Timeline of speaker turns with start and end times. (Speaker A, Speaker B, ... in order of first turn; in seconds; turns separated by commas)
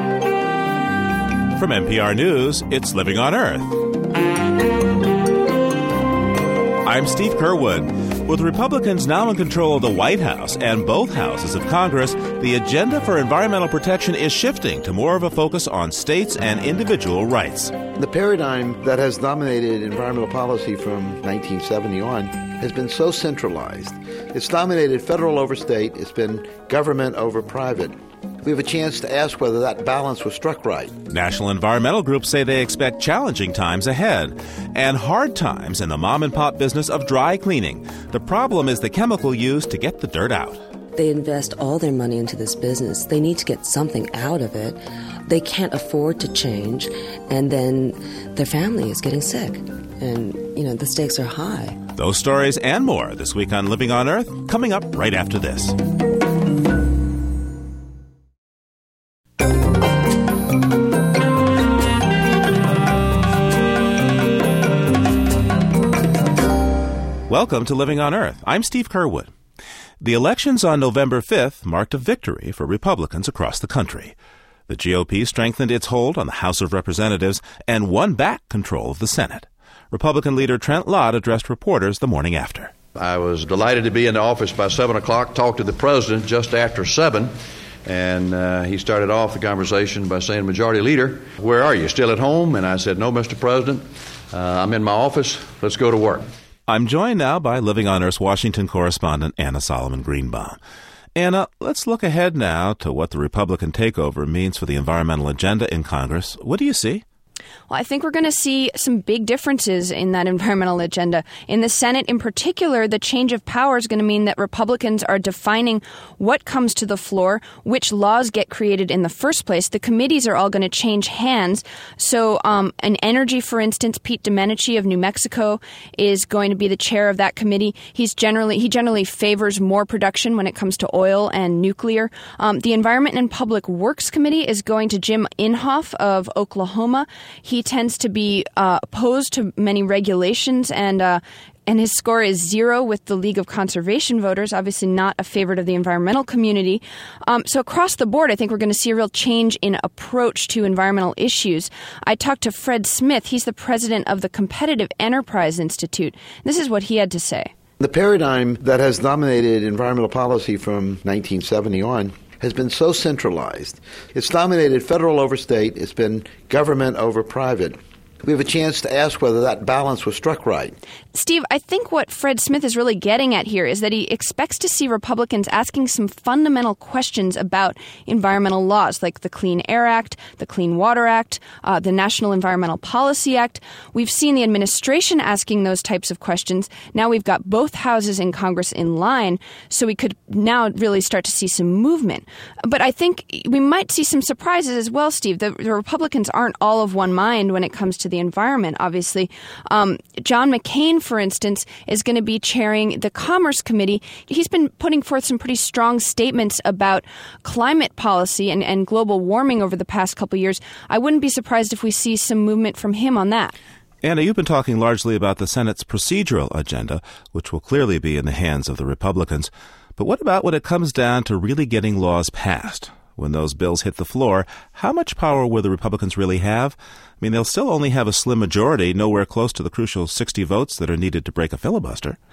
Speaker A: 1.5-3.7, Speaker A: 6.8-17.7, Speaker B: 17.9-30.9, Speaker A: 31.1-40.6, Speaker C: 40.9-51.8, Speaker A: 52.0-55.8, Speaker A: 67.3-69.3, Speaker A: 70.0-74.2, Speaker A: 74.7-82.7, Speaker D: 83.0-96.3, Speaker A: 96.7-100.6, Speaker A: 101.2-107.0, Speaker E: 107.7-157.5, Speaker B: 157.8-170.8, Speaker E: 171.1-213.6, Speaker A: 214.0-232.2